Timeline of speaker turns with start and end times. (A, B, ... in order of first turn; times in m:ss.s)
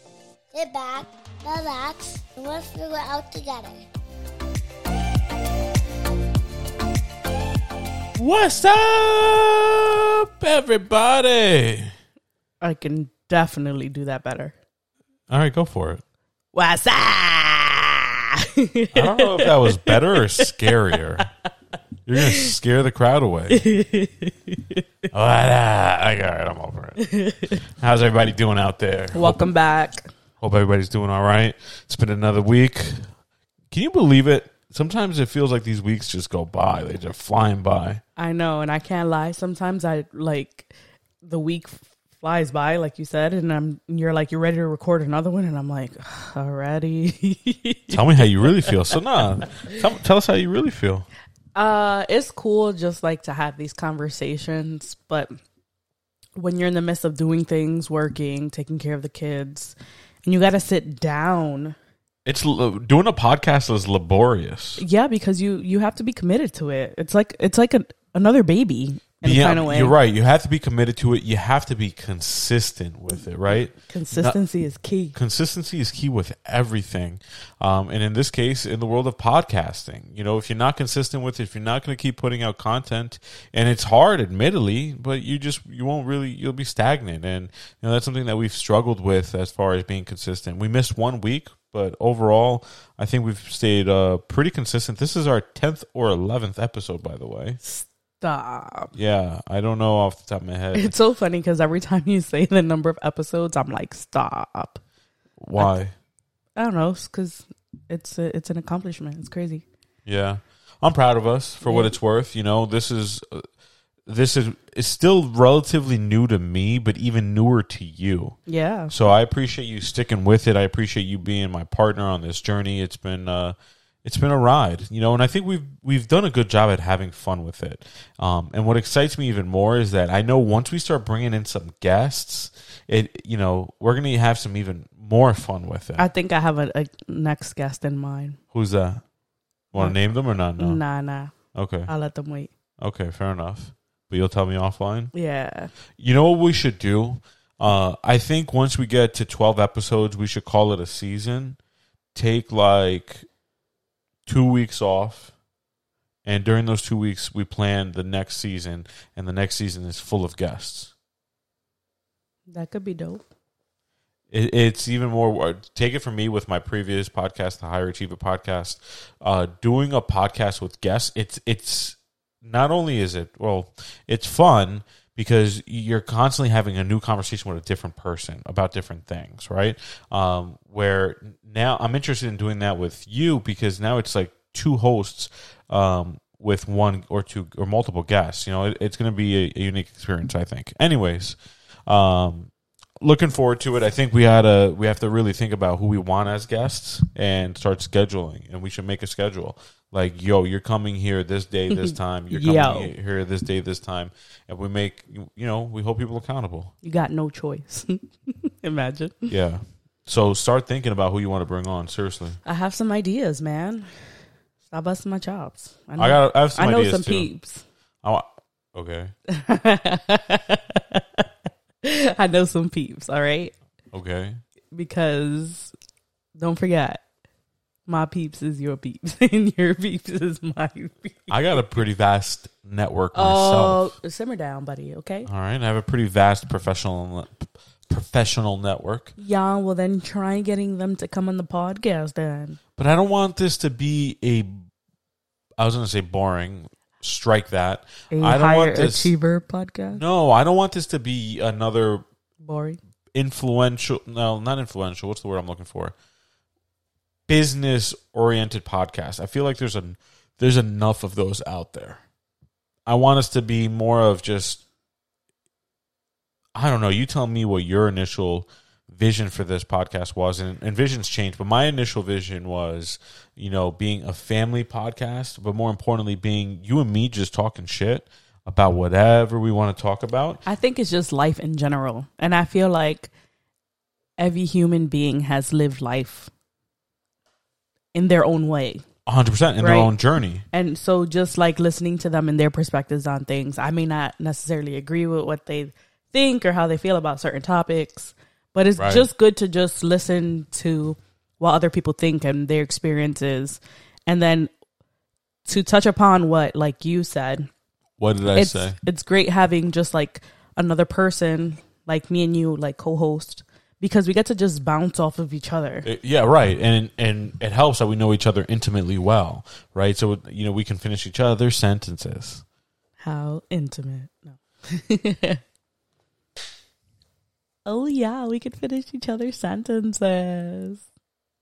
0:00.5-0:03.9 A
0:08.2-0:11.9 B
0:12.6-0:14.5 C
0:15.3-0:16.0 B
0:16.5-0:21.2 C
0:18.9-0:21.2 B
0:22.0-0:23.6 B
0:22.2-0:22.5 C
0:23.5-0:24.8 C
0:25.1-0:29.4 B
0:27.0-0:27.6 C
0:29.1-0:30.1 C
0:30.4-0:33.1 B
0:33.7-0:38.0 B
0:38.2-0:48.7 C
0:47.9-0:51.1 B
0:51.5-0:55.3 C
0:56.4-1:01.8 C
1:02.2-1:04.8 B
1:04.8-1:10.0 C
1:09.2-1:14.4 B
1:13.9-1:15.1 C
1:15.1-1:37.6 B
1:37.6-1:38.9 C
1:38.9-1:40.9 B
1:40.7-1:44.8 C
1:45.4-1:45.9 B
1:46.6-1:49.6 C
1:50.0-1:53.5 B
1:51.6-1:51.9 C
1:54.0-1:58.4 B
1:58.5-1:58.9 C
1:58.9-2:16.1 B
2:16.0-2:18.4 C
2:18.5-2:19.0 B
2:19.7-2:20.8 B
2:20.6-2:21.3 C
2:21.5-2:21.9 B
2:21.9-2:22.5 C
2:22.8-2:25.1 B
2:25.1-2:25.7 C
2:26.0-2:31.6 B
2:32.1-2:33.2 B
2:34.2-2:35.3 B
2:36.2-2:40.9 B
2:42.5-2:43.2 C
2:44.3-3:26.7 B
3:21.7-3:22.9 C
3:26.8-3:29.3 C
3:29.3-3:32.4 B
3:32.4-3:33.9 C
3:34.7-3:37.6 C
3:36.0-3:37.3 B
3:38.0-3:39.1 B
3:39.3-3:41.2 C
3:41.8-3:43.5 C
3:43.9-3:44.4 B
3:44.7-3:45.7 C
3:46.4-3:47.0 C
3:47.9-3:51.6 C
3:51.3-3:53.9 B
3:53.1-3:55.3 C
3:55.2-3:59.1 B
3:59.2-4:02.6 C
4:02.8-4:04.6 B
4:05.6-4:09.1 B
4:08.1-4:10.0 C
4:09.9-4:12.0 B
4:12.4-4:12.8 C
4:13.1-4:15.9 B
4:17.3-4:22.0 B
4:22.8-4:24.6 B
4:26.5-4:40.4 B
4:40.4-4:43.1 C
4:44.2-4:46.3 C
4:47.9-4:48.8 C
4:49.0-4:50.4 B
4:49.6-4:49.9 C
4:50.5-5:04.5 C
4:58.8-4:59.1 B
5:05.4-5:07.5 C
5:08.0-5:08.8 B
5:08.3-5:15.9 C
5:15.8-5:22.4 B
5:23.0-5:25.4 C
5:27.6-5:30.8 C